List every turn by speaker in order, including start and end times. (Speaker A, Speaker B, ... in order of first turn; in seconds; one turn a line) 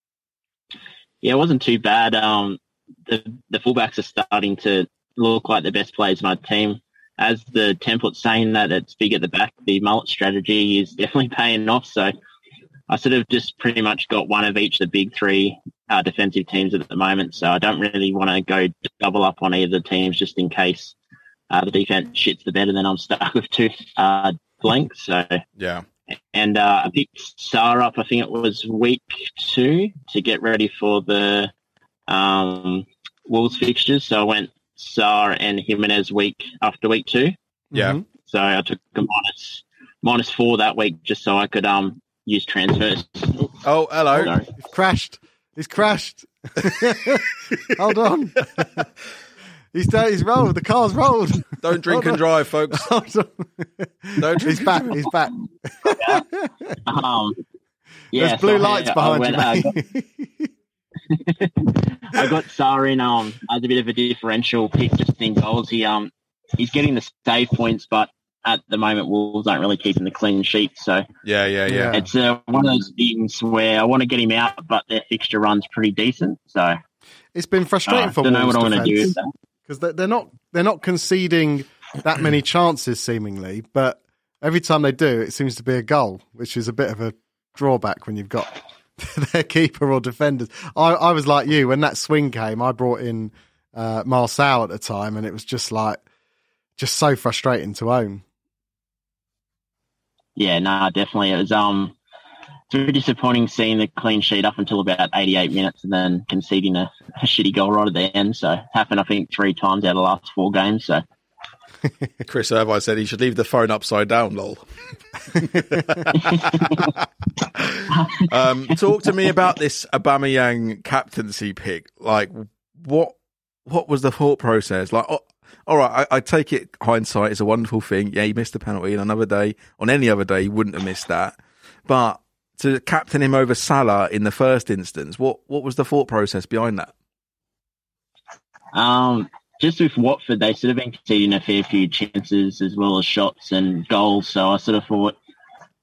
Speaker A: 1.2-12.1
Speaker A: 12.9-20.9
Speaker A: 21.5-25.4
Speaker B: 25.6-25.8
Speaker A: 26.3-31.5
Speaker A: 32.1-37.3
Speaker C: 37.7-38.0
Speaker B: 37.7-38.0
Speaker A: 38.2-43.6
Speaker B: 43.6-44.3
Speaker A: 44.1-44.5
Speaker C: 44.6-48.9
Speaker C: 49.7-56.7
Speaker B: 51.6-52.9
Speaker B: 54.2-55.1
Speaker A: 55.9-56.2
Speaker A: 56.8-57.4
Speaker A: 58.1-59.7
Speaker C: 58.1-60.5
Speaker A: 61.1-71.0
Speaker B: 71.2-72.0
Speaker C: 71.7-72.1
Speaker A: 71.9-76.8
Speaker C: 77.3-79.1
Speaker A: 77.9-79.3
Speaker C: 79.7-96.0
Speaker C: 96.8-98.2
Speaker A: 100.3-101.9
Speaker A: 102.7-111.0
Speaker B: 112.2-114.6
Speaker C: 115.3-116.0
Speaker B: 115.3-136.9
Speaker A: 116.1-116.9
Speaker A: 117.9-118.3
Speaker A: 138.7-145.2